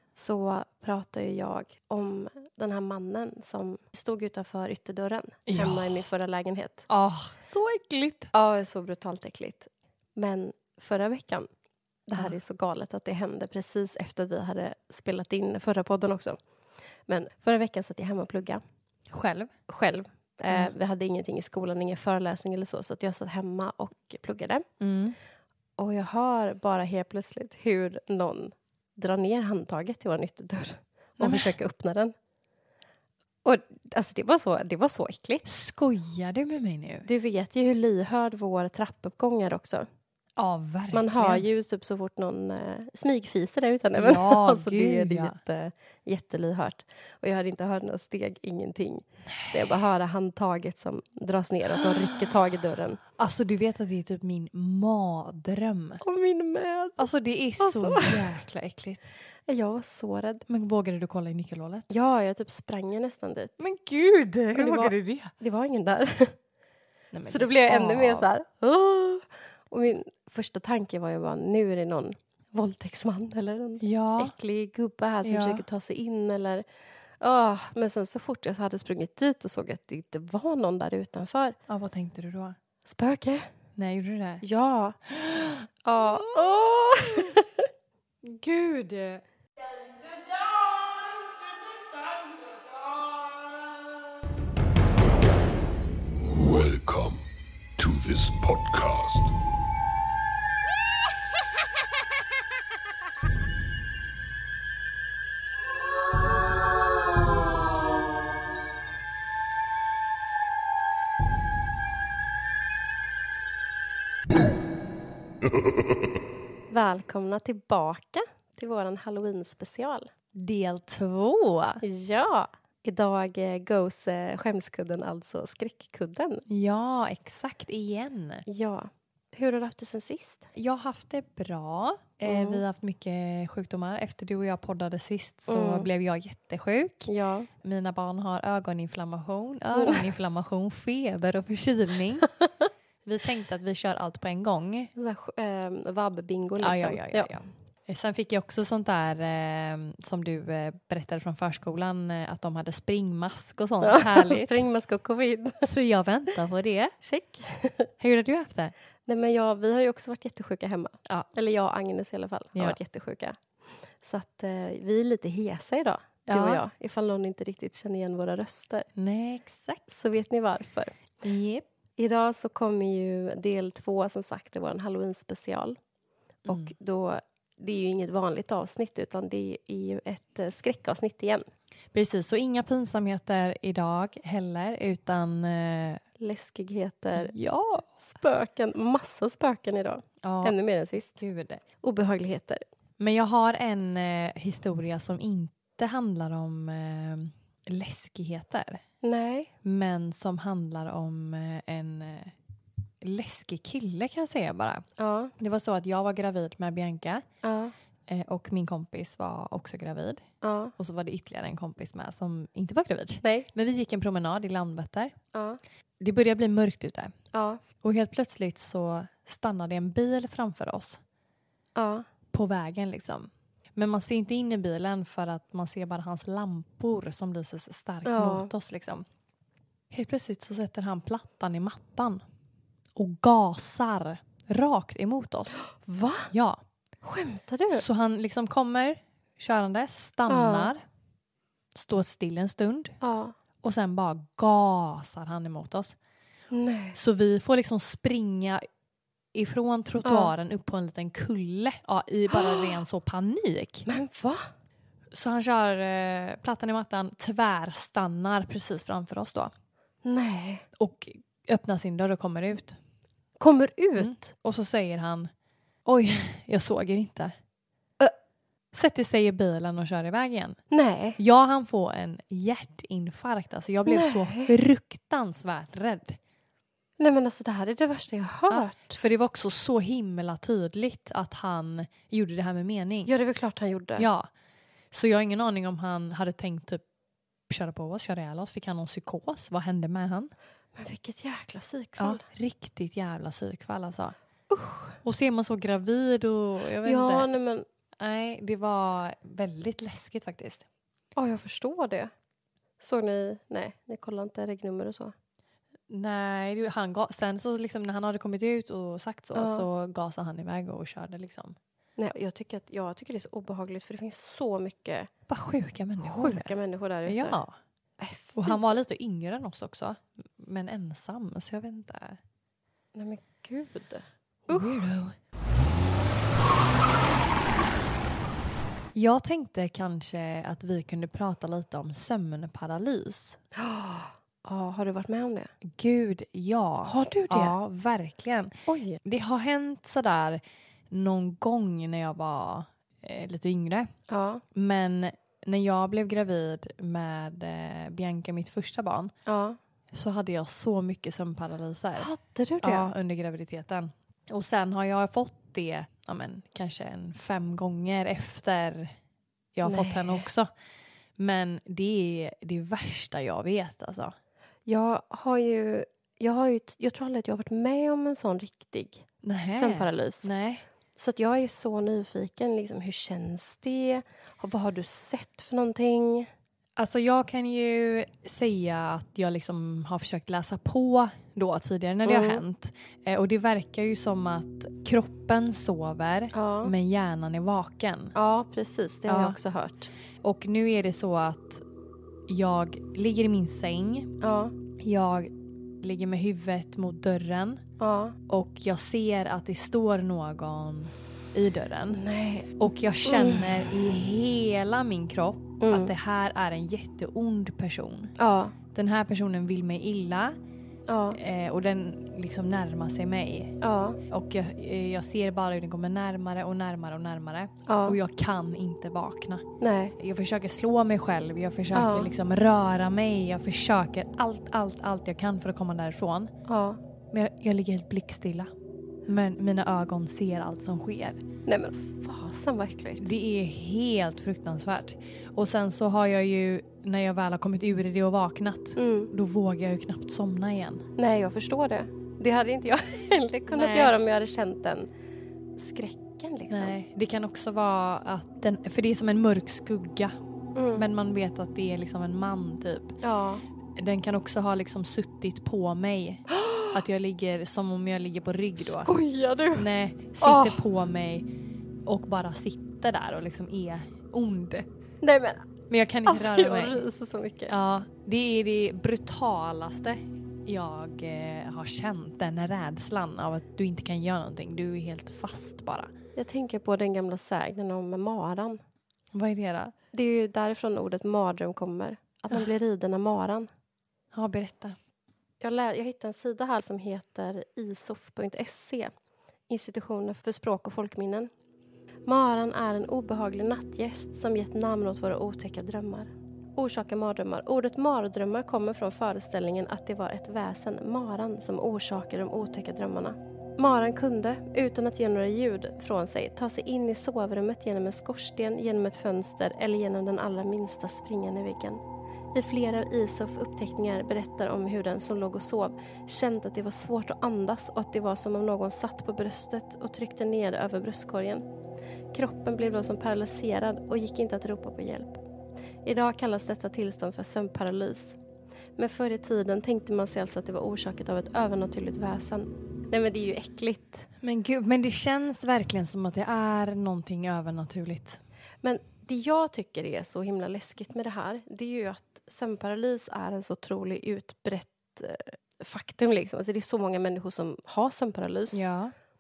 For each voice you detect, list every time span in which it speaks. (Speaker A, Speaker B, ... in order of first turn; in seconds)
Speaker A: 0.2-6.9, 8.3-11.5, 12.1-16.4, 17.1-18.6, 19.7-24.6, 25.8-32.1, 33.4-35.5, 37.0-39.9, 40.9-53.0, 56.0-57.0, 57.6-58.3, 59.5-60.4, 61.9-63.6, 64.5-66.4, 67.3-76.7, 77.2-81.6, 82.8-83.5, 84.4-85.0, 85.8-87.7, 116.7-120.1, 121.8-126.4, 128.5-130.5, 132.3-132.6, 135.5-135.9, 137.1-137.5, 139.8-140.1, 145.0-147.3, 153.8-155.7, 157.0-157.9, 159.1-163.4, 164.0-168.9, 169.9-171.0, 172.0-175.8, 176.4-181.4, 186.2-187.3, 188.0-191.2, 191.8-192.6, 199.0-199.5, 205.0-205.3, 207.4-207.7, 210.4-210.7, 213.2-213.5, 215.3-215.6, 217.3-217.6, 221.8-222.1, 228.1-228.5, 235.7-236.3, 237.0-237.8, 240.3-240.7, 243.0-243.4, 246.5-247.0, 250.1-250.3, 252.3-252.7, 253.9-254.5, 260.1-260.6, 263.4-264.3, 270.7-271.2, 273.9-274.5, 277.0-279.0, 283.1-284.1, 290.8-292.2, 294.5-295.0, 296.8-297.7, 301.2-302.1, 302.8-305.1, 309.4-309.7, 312.0-315.1, 316.0-317.4, 318.0-318.8, 322.9-324.9, 333.6-335.5, 336.8-337.6, 338.7-339.0, 344.1-344.4, 349.3-349.6, 352.0-352.9, 359.6-360.3, 364.7-370.3, 370.9-376.3, 382.1-382.4, 386.3-386.7, 388.1-389.9, 394.2-394.6, 397.8-398.2, 401.9-402.5, 403.0-403.6, 405.6-405.9, 408.2-408.6, 410.9-411.2, 413.6-414.0, 417.7-418.0, 419.6-419.9, 421.7-422.1, 426.5-426.8, 431.5-433.1, 438.8-439.1, 441.0-444.9, 445.6-446.8, 450.6-450.9, 453.0-453.4, 456.3-456.8, 458.6-459.7, 460.2-460.6, 465.0-465.5, 466.1-467.5, 476.2-478.6, 479.9-483.5, 485.4-488.9, 489.5-491.3, 492.1-511.8, 512.3-521.5, 522.1-525.2, 525.9-528.2, 528.8-534.1, 538.6-548.6
Speaker B: 5.5-6.0, 6.9-8.3, 19.1-19.5, 20.5-20.7, 24.8-25.2, 31.2-31.5, 35.5-37.1, 40.4-41.5, 44.0-45.4, 49.3-49.8, 51.8-52.1, 53.2-56.0, 57.0-59.0, 60.5-61.9, 63.6-65.3, 67.1-68.3, 73.8-74.3, 75.2-75.6, 81.7-82.6, 83.8-84.4, 85.1-87.4, 88.2-89.2, 90.4-93.7, 120.4-121.8, 126.5-128.4, 130.6-137.1, 137.6-142.3, 143.1-144.9, 146.6-154.6, 155.6-157.0, 158.0-158.7, 166.3-166.6, 169.0-169.9, 171.2-171.7, 176.5-176.7, 181.9-186.0, 187.2-187.9, 190.2-190.6, 191.2-191.6, 193.0-198.8, 199.6-202.3, 203.0-204.8, 205.4-207.2, 208.1-210.2, 210.8-215.2, 216.0-217.1, 217.8-221.0, 222.3-229.1, 229.9-232.2, 233.0-235.6, 236.3-236.6, 237.7-240.8, 241.7-243.0, 243.6-246.0, 246.9-248.6, 249.3-253.9, 255.1-259.5, 260.8-262.8, 264.0-265.3, 265.9-267.3, 268.7-270.6, 271.2-276.2, 278.5-283.1, 284.0-284.3, 284.9-286.8, 287.5-290.3, 292.0-294.1, 295.0-297.3, 298.0-300.6, 305.9-311.6, 315.3-316.5, 317.1-317.6, 318.4-322.2, 324.5-325.1, 328.9-333.4, 335.6-343.9, 344.5-349.1, 349.9-352.1, 352.6-358.9, 359.6-360.5, 361.2-364.1, 369.2-370.6, 376.8-388.1, 389.1-389.4, 390.2-391.6, 392.3-394.1, 394.8-395.3, 395.8-397.6, 398.3-402.0, 402.6-408.1, 408.7-410.4, 411.1-413.6, 414.1-419.4, 420.0-426.3, 427.1-428.5, 429.1-431.2, 433.0-440.9, 443.5-444.0, 446.5-450.1, 450.8-453.0, 453.8-458.9, 459.5-461.3, 461.9-464.7, 465.7-466.8, 467.5-475.9, 479.1-479.7, 484.1-484.8, 534.2-538.2, 548.5-548.9
Speaker C: 96.3-97.2, 97.8-99.3